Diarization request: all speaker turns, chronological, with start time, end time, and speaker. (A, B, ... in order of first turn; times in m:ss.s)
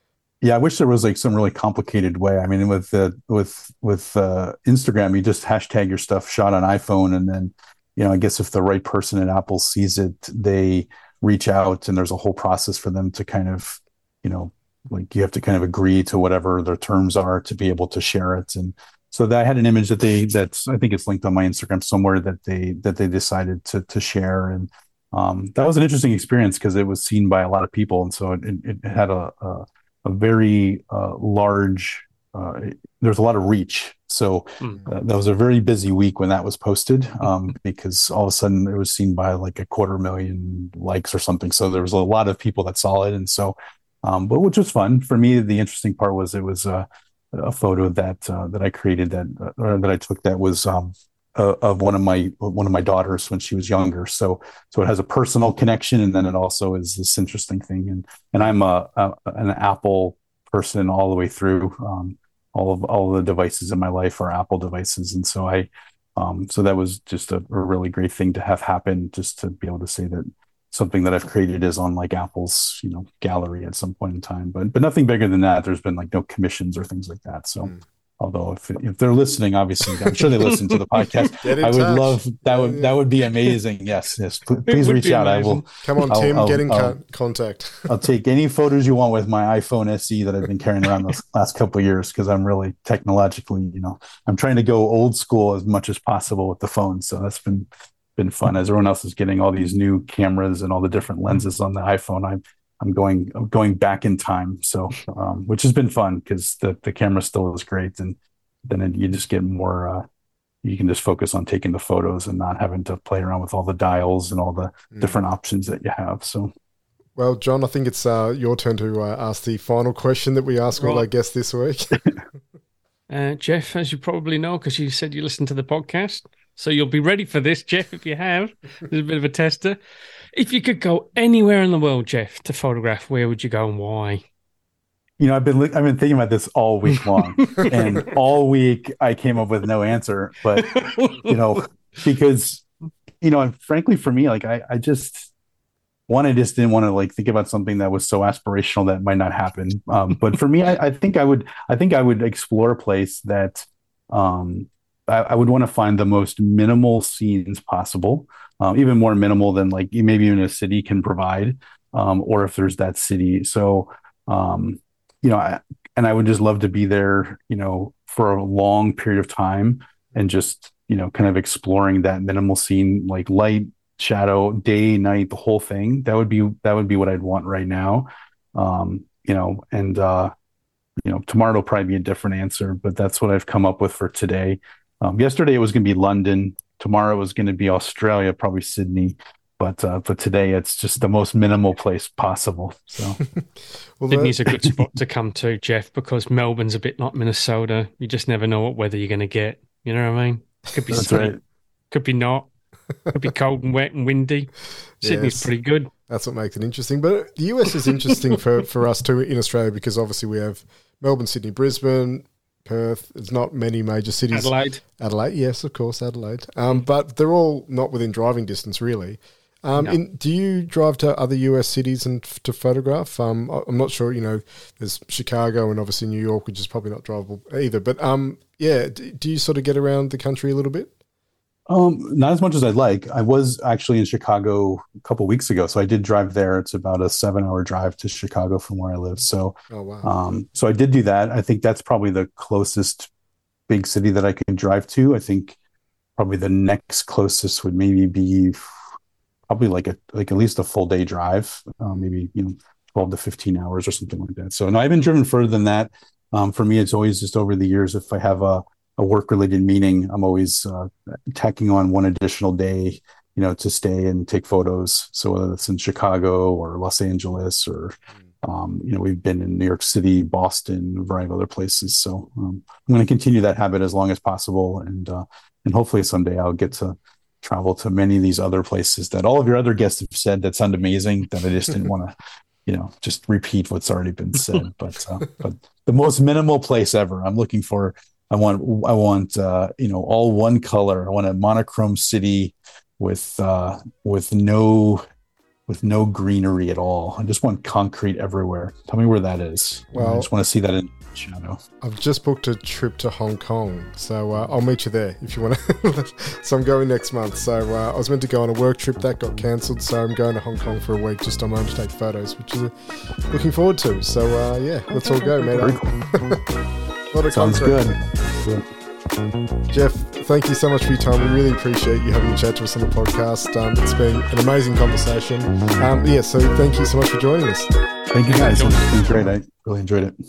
0:00.4-1:27.0 A
1:20.5-1:21.1 B
1:21.4-1:22.9 C
1:24.7-1:25.6 B
1:25.8-1:28.0 C
1:27.8-1:50.0 A
1:50.6-1:56.5 A
1:57.2-2:02.0 C
2:00.8-2:01.0 B
2:03.1-2:09.8 B
2:10.3-2:14.2 B
2:15.2-2:22.6 A
2:17.4-2:17.8 B
2:20.6-2:21.3 B
2:23.2-2:25.3 A
2:26.1-3:00.3 A
3:01.0-3:13.2 A
3:14.0-3:14.4 C
3:14.1-3:21.4 B
3:20.9-3:21.4 A
3:21.9-3:22.5 B
3:23.1-3:25.9 B
3:25.0-3:25.5 C
3:26.1-3:50.9 C
3:34.3-3:34.8 B
3:51.7-4:03.1 A
3:59.7-4:00.1 C
4:03.7-4:05.6 A
4:06.2-4:08.6 A
4:09.5-4:42.1 A
4:42.6-4:55.0 A
4:55.7-5:01.6 A
4:59.9-5:00.3 C
5:01.8-5:16.4 C
5:15.5-5:16.4 A
5:17.1-5:17.8 C
5:17.3-5:18.6 A
5:19.7-5:27.7 C
5:28.1-5:30.1 A
5:28.3-5:29.0 B